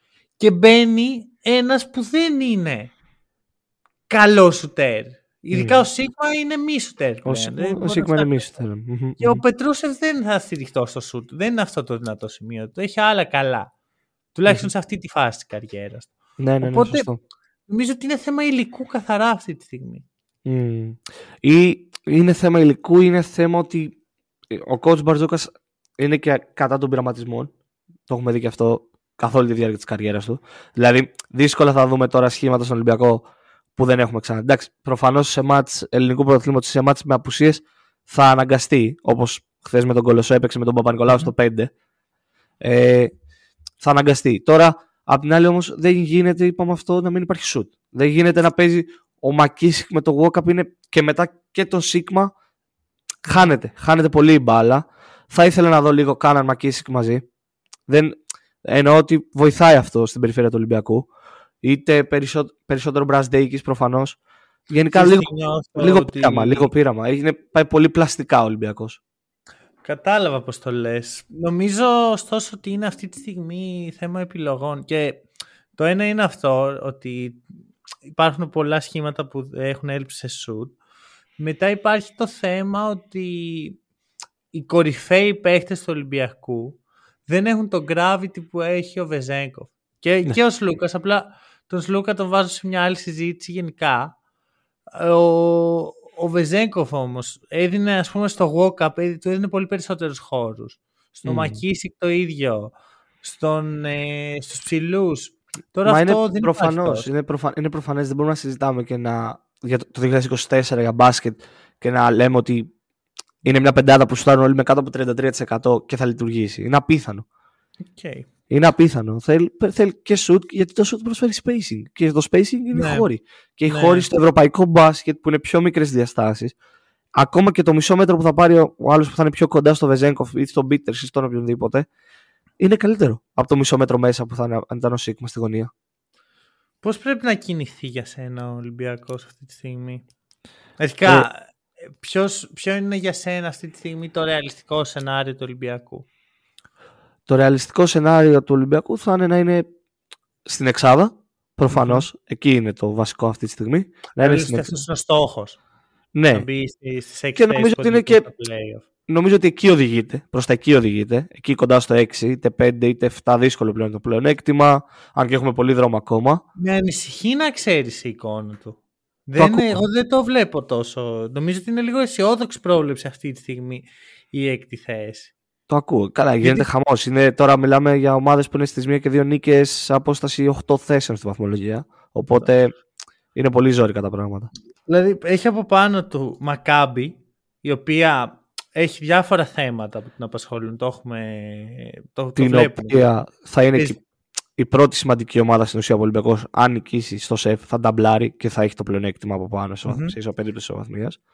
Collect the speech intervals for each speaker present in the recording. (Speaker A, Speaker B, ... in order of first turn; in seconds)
Speaker A: 0.4-2.9, 4.1-8.4, 9.2-13.7, 14.3-17.1, 17.7-20.0, 53.3-53.5, 64.9-66.7, 69.8-75.2, 75.8-77.4, 78.2-80.7, 81.4-83.8, 84.5-94.2, 94.9-107.1, 117.9-118.3, 122.7-123.1, 123.7-124.1, 136.8-140.0, 140.8-141.5, 142.0-146.1, 151.7-152.1, 154.2-155.6, 156.3-158.8, 166.6-175.3, 176.4-176.7, 184.9-193.1, 199.8-200.1
Speaker B: 5.5-5.8, 7.2-9.4, 16.4-17.2, 20.4-23.9, 24.5-27.5, 28.1-33.2, 33.8-41.7, 42.6-43.1, 43.8-52.3, 53.2-57.2, 58.6-61.1, 61.6-64.2, 64.7-69.0, 101.2-101.6, 105.8-112.7, 113.4-117.2, 118.5-126.5, 127.2-131.9, 132.6-135.7, 147.3-149.6, 150.4-154.8, 156.1-156.4, 157.3-158.2, 159.1-166.4, 169.4-169.8, 175.7-182.7, 183.3-184.5, 192.4-193.9, 194.6-201.2